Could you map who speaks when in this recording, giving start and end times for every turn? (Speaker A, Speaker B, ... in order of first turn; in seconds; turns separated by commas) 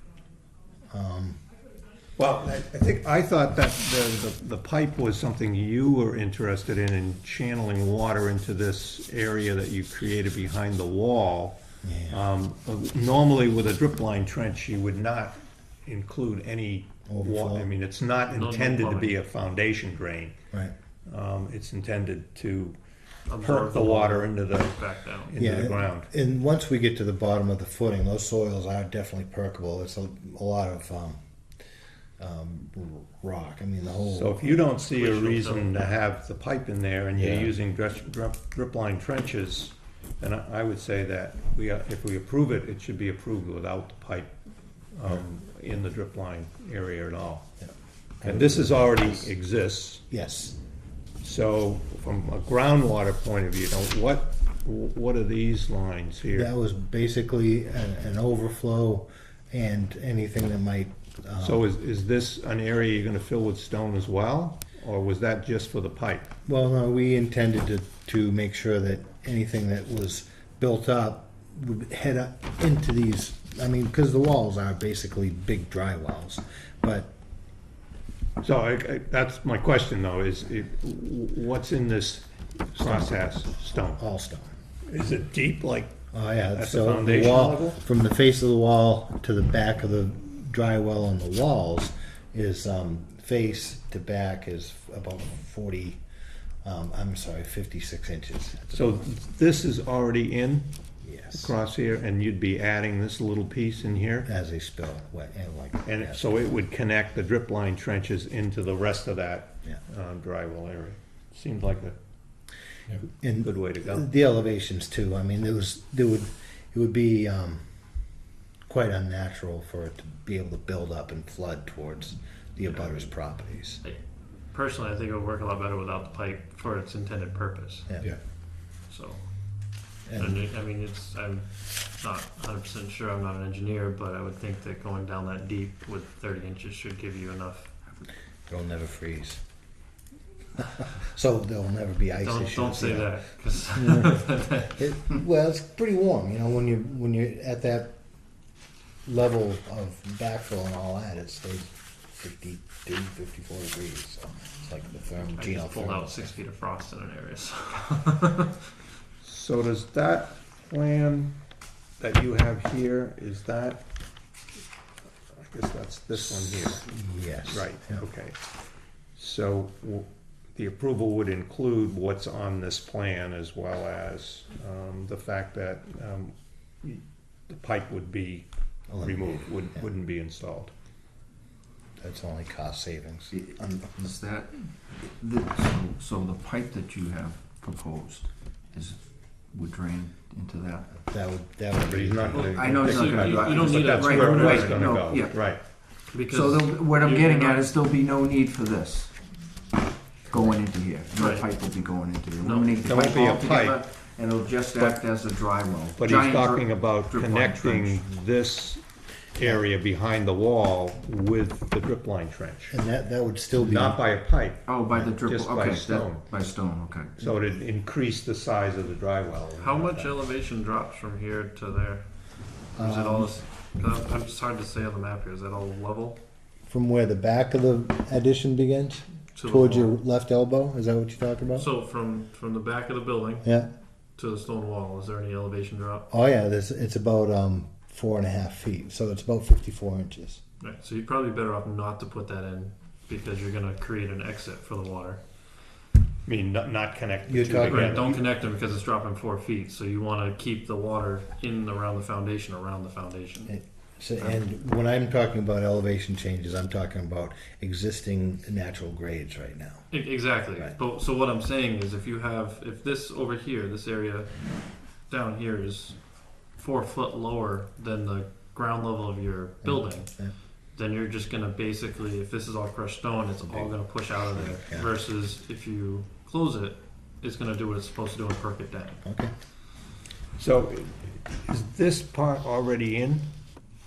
Speaker A: 0.9-1.4, Speaker B: 2.2-11.6, Speaker A: 11.8-12.2, Speaker B: 12.1-20.4, Speaker A: 17.1-17.7, Speaker C: 18.3-19.1, Speaker B: 21.1-22.8, Speaker C: 23.3-25.3, Speaker B: 23.4-26.1, Speaker A: 25.4-31.2, Speaker A: 32.2-34.4, Speaker B: 34.1-44.3, Speaker C: 34.9-35.9, Speaker B: 44.9-47.5, Speaker A: 48.2-49.3, Speaker B: 48.2-50.0, Speaker A: 50.1-50.6, Speaker B: 51.2-56.5, Speaker A: 56.3-61.6, Speaker B: 61.4-66.3, Speaker A: 66.5-77.1, Speaker B: 78.4-84.0, Speaker A: 82.8-83.3, Speaker A: 84.0-84.5, Speaker B: 84.9-85.9, Speaker A: 86.1-96.0, Speaker B: 86.5-87.8, Speaker A: 96.6-99.0, Speaker B: 98.7-100.7, Speaker A: 101.0-101.5, Speaker B: 101.3-104.3, Speaker A: 104.2-106.2, Speaker B: 105.8-112.0, Speaker A: 113.2-117.6, Speaker B: 113.4-114.1, Speaker A: 118.7-123.8, Speaker C: 124.5-127.9, Speaker A: 127.9-128.1, Speaker C: 128.8-129.3, Speaker A: 130.1-130.4, Speaker C: 130.1-137.7, Speaker A: 138.5-139.4, Speaker A: 140.6-143.1, Speaker C: 142.2-144.7, Speaker A: 143.7-148.0, Speaker A: 149.1-156.3, Speaker C: 155.3-158.6, Speaker B: 159.2-161.3, Speaker B: 162.0-163.8, Speaker B: 165.4-166.9, Speaker A: 166.6-168.1, Speaker B: 167.4-168.4, Speaker B: 169.2-178.5, Speaker A: 178.9-179.8, Speaker B: 179.0-180.7, Speaker A: 182.0-184.1, Speaker D: 183.3-190.9, Speaker A: 190.9-192.8, Speaker B: 191.8-195.6, Speaker D: 192.3-195.5, Speaker C: 192.8-194.9, Speaker C: 196.1-197.7, Speaker D: 196.1-199.1, Speaker D: 200.3-208.0, Speaker A: 200.3-200.6, Speaker C: 201.1-201.5, Speaker C: 202.4-202.7, Speaker B: 202.8-203.8, Speaker B: 204.7-205.0, Speaker B: 205.9-208.8, Speaker B: 209.3-212.8, Speaker A: 212.7-214.0, Speaker B: 213.6-216.3, Speaker D: 214.7-217.1, Speaker B: 217.2-220.2, Speaker C: 219.6-222.0, Speaker A: 222.8-223.4, Speaker C: 222.8-226.2, Speaker A: 226.7-231.7, Speaker C: 229.3-229.9, Speaker C: 231.6-233.5, Speaker A: 233.4-233.7, Speaker C: 234.2-236.1, Speaker A: 236.1-240.4, Speaker C: 240.6-245.2, Speaker B: 246.2-248.2, Speaker A: 247.3-248.2, Speaker C: 247.6-253.6, Speaker A: 253.5-259.9, Speaker C: 259.9-264.3, Speaker C: 265.1-266.0, Speaker C: 266.6-270.1, Speaker A: 269.6-270.3, Speaker C: 270.7-279.0, Speaker A: 274.3-274.9, Speaker A: 279.0-279.3, Speaker B: 280.4-283.3